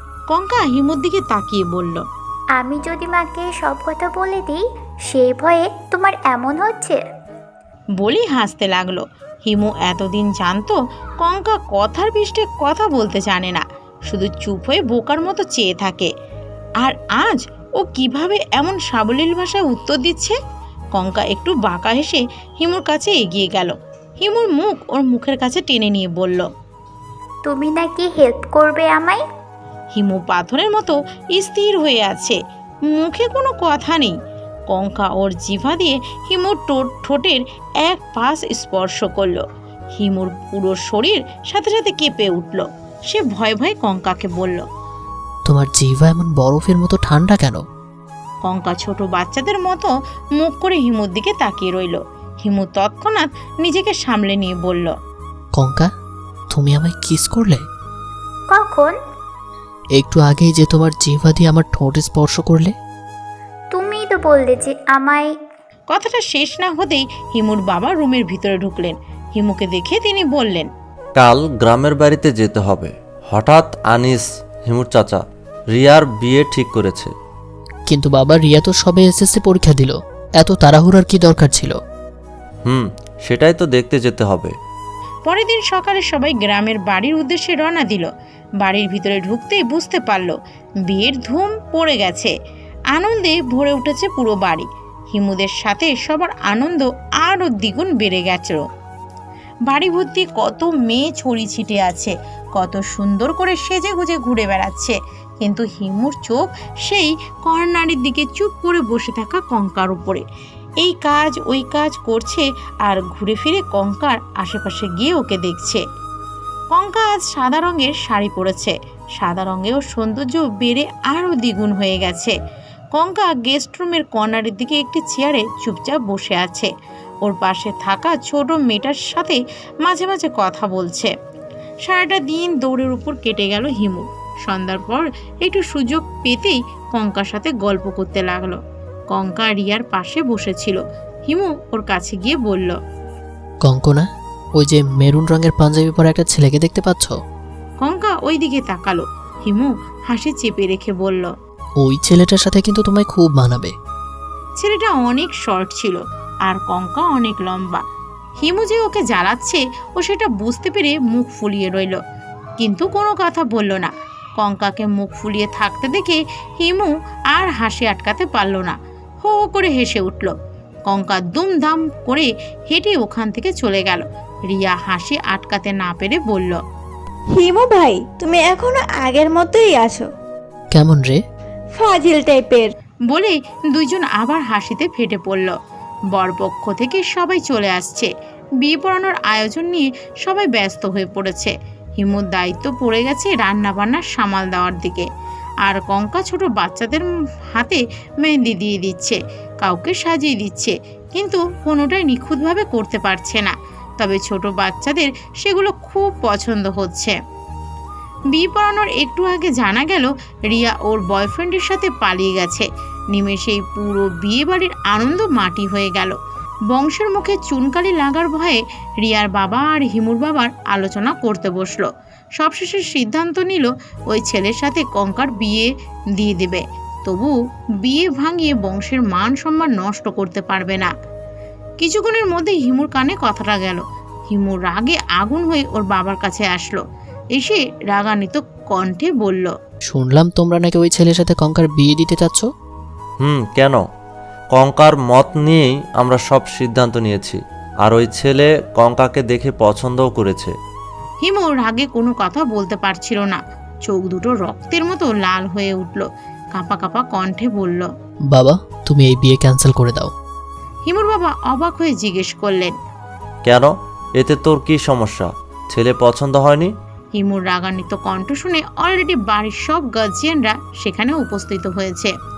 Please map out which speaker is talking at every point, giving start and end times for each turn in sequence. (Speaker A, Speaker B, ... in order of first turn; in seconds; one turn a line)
Speaker A: 0.3-2.0
Speaker B: 2.6-7.0
Speaker A: 8.0-16.1
Speaker A: 16.8-20.4
Speaker A: 20.9-26.5
Speaker B: 27.4-29.2
Speaker A: 29.9-32.4
Speaker A: 32.9-34.1
Speaker A: 34.7-39.4
Speaker A: 40.0-44.6
Speaker C: 45.5-47.6
Speaker A: 48.4-54.9
Speaker C: 55.5-55.9
Speaker C: 56.5-57.6
Speaker B: 58.5-59.0
Speaker C: 60.0-62.7
Speaker B: 63.7-65.3
Speaker A: 65.9-70.7
Speaker D: 71.2-77.1
Speaker C: 77.9-81.8
Speaker D: 82.7-84.5
Speaker A: 85.3-88.1
Speaker A: 88.6-90.3
Speaker A: 90.9-92.3
Speaker A: 92.9-98.6
Speaker A: 99.7-110.2
Speaker A: 110.8-115.8
Speaker A: 116.7-122.3
Speaker A: 122.9-126.7
Speaker A: 127.2-131.1
Speaker A: 131.8-138.6
Speaker A: 139.1-142.8
Speaker C: 143.6-147.1
Speaker A: 147.8-151.3
Speaker C: 151.8-153.7
Speaker A: 154.6-157.8
Speaker A: 158.4-162.0
Speaker A: 162.6-170.3
Speaker A: 170.9-176.6
Speaker E: 177.3-180.1
Speaker C: 180.7-181.2
Speaker E: 181.7-182.7
Speaker A: 183.1-185.6
Speaker A: 186.1-195.1
Speaker A: 195.6-207.2
Speaker A: 208.3-216.2
Speaker A: 216.7-221.9
Speaker A: 222.4-230.9
Speaker A: 231.8-236.8
Speaker A: 237.3-239.5
Speaker C: 239.9-242.5
Speaker D: 243.2-243.8
Speaker D: 244.5-250.5
Speaker A: 251.2-257.9
Speaker C: 258.3-260.1
Speaker A: 260.9-262.7
Speaker D: 263.4-266.7
Speaker A: 267.1-272.1